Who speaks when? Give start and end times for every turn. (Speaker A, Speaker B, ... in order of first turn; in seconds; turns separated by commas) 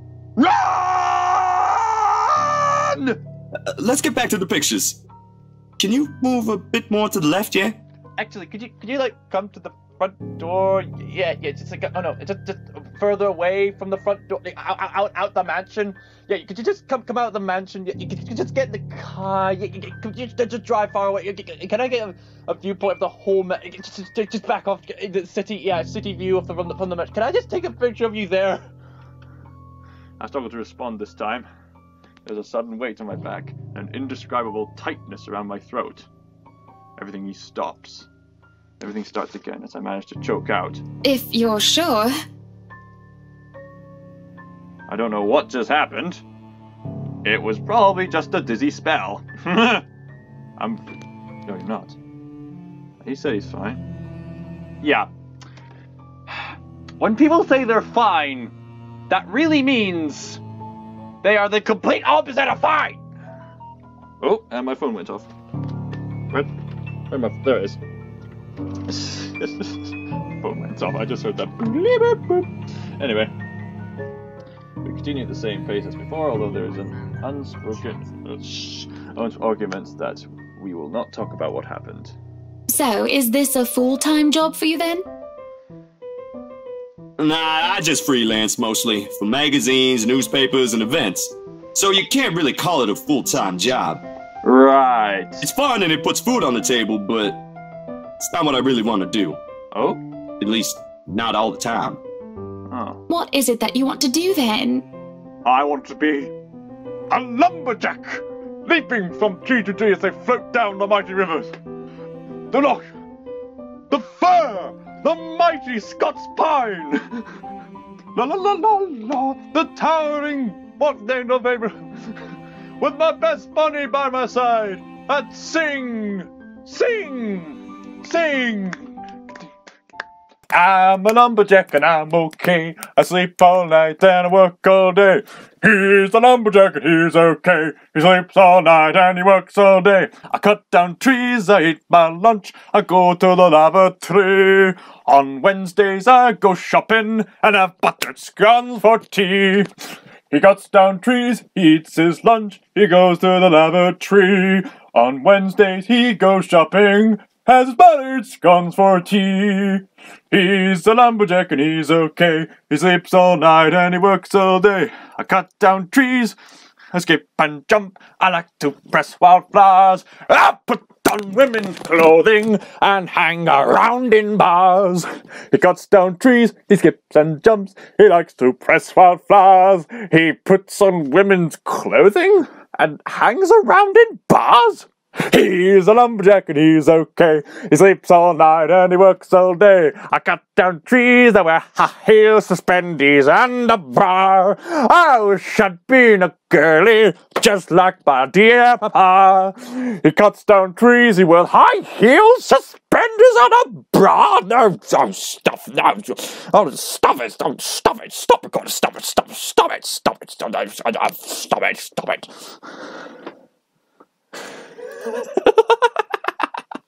Speaker A: 0.4-3.2, Speaker B: 3.8-5.0, Speaker B: 5.8-7.8, Speaker A: 8.2-28.6, Speaker A: 30.2-31.5, Speaker A: 32.3-36.1, Speaker A: 37.0-38.1, Speaker A: 38.8-40.8, Speaker C: 41.0-42.1, Speaker A: 44.9-46.2, Speaker A: 47.2-49.9, Speaker A: 50.6-50.8, Speaker A: 51.5-52.0, Speaker A: 53.0-53.8, Speaker A: 54.8-55.1, Speaker A: 57.0-58.5, Speaker A: 59.1-60.4, Speaker A: 61.2-63.0, Speaker A: 64.2-65.3, Speaker A: 67.1-67.8, Speaker A: 68.9-73.3, Speaker A: 74.8-82.1, Speaker C: 82.7-85.0, Speaker B: 87.2-94.0, Speaker A: 94.4-95.5, Speaker B: 95.4-97.4, Speaker B: 98.2-99.4, Speaker A: 99.7-100.0, Speaker B: 100.4-102.0, Speaker A: 102.7-103.0, Speaker C: 103.1-104.9, Speaker A: 105.5-106.3, Speaker A: 107.1-111.5, Speaker A: 112.5-112.9, Speaker A: 113.9-117.2, Speaker A: 118.2-122.1, Speaker A: 122.8-128.8, Speaker A: 130.5-149.7, Speaker A: 150.3-166.4, Speaker A: 166.9-212.3, Speaker A: 215.1-215.5